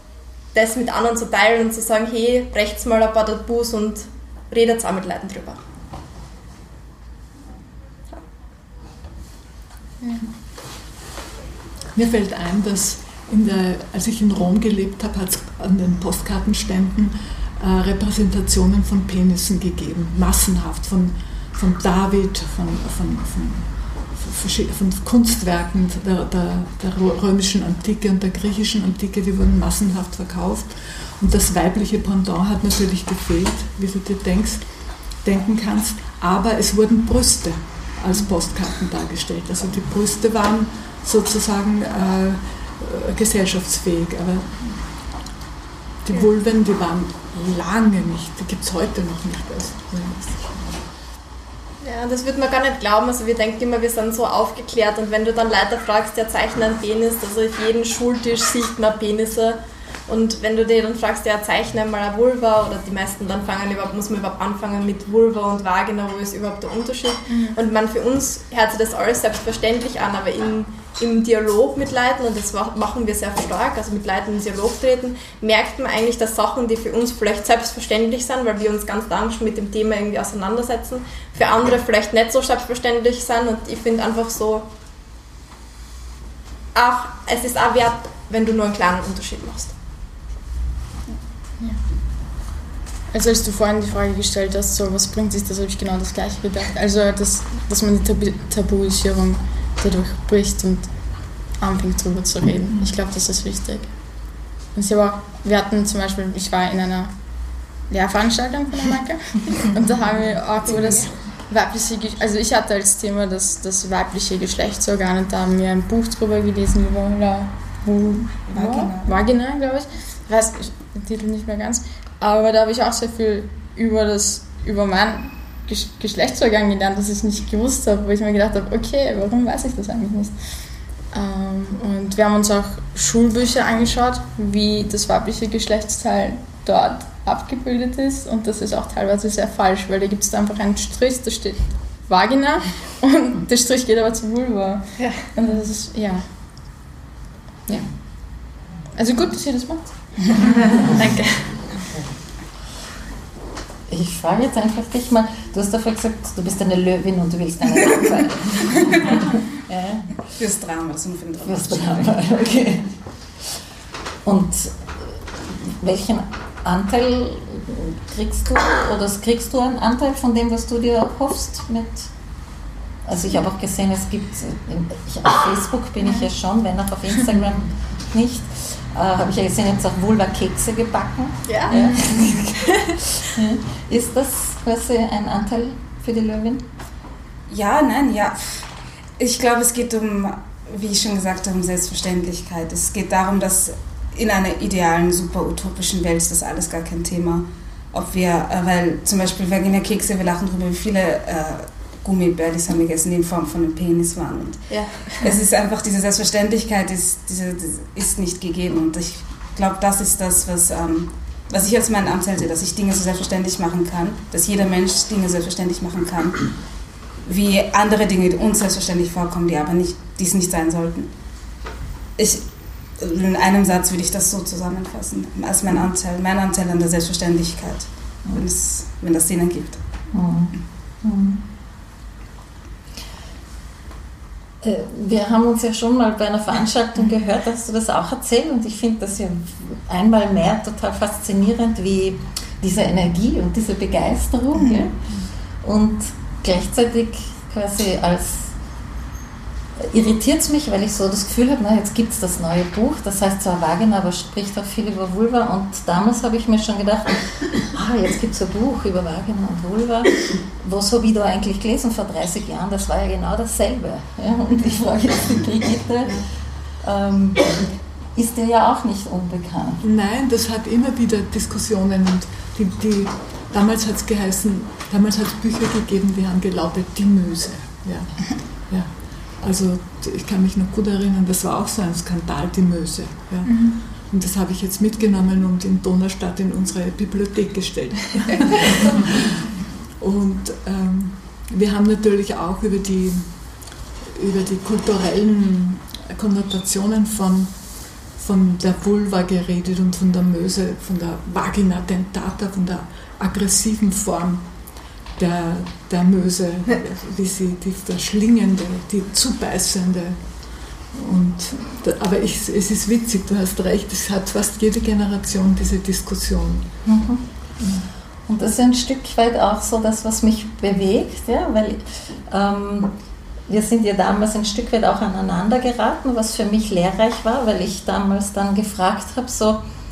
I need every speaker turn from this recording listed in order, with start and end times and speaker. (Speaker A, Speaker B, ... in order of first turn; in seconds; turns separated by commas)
Speaker A: 0.5-5.6, Speaker B: 11.9-34.7, Speaker B: 35.2-44.5, Speaker B: 46.0-50.8, Speaker A: 51.8-84.7, Speaker C: 67.3-67.6, Speaker A: 86.8-89.7, Speaker C: 93.1-104.2, Speaker C: 104.7-107.2, Speaker C: 107.9-130.3, Speaker D: 118.5-119.1, Speaker C: 131.1-146.3, Speaker A: 145.0-145.2, Speaker C: 147.7-148.4, Speaker C: 148.9-151.4, Speaker E: 153.9-160.1, Speaker D: 160.4-162.2, Speaker E: 161.4-162.9, Speaker E: 164.2-172.1, Speaker E: 173.1-186.7, Speaker A: 181.5-181.7, Speaker D: 187.5-188.7, Speaker D: 189.2-216.5, Speaker D: 217.2-221.1, Speaker D: 222.2-222.4, Speaker D: 223.0-229.8, Speaker E: 230.1-231.4, Speaker E: 234.6-244.9, Speaker E: 245.6-248.5, Speaker E: 249.8-266.3, Speaker E: 266.8-267.6, Speaker E: 268.1-269.8, Speaker B: 269.8-289.5, Speaker B: 290.0-293.3, Speaker B: 294.1-297.5, Speaker B: 298.1-304.5, Speaker B: 305.2-310.2, Speaker B: 310.9-316.7, Speaker E: 316.9-317.2, Speaker E: 318.3-322.9, Speaker E: 323.5-329.6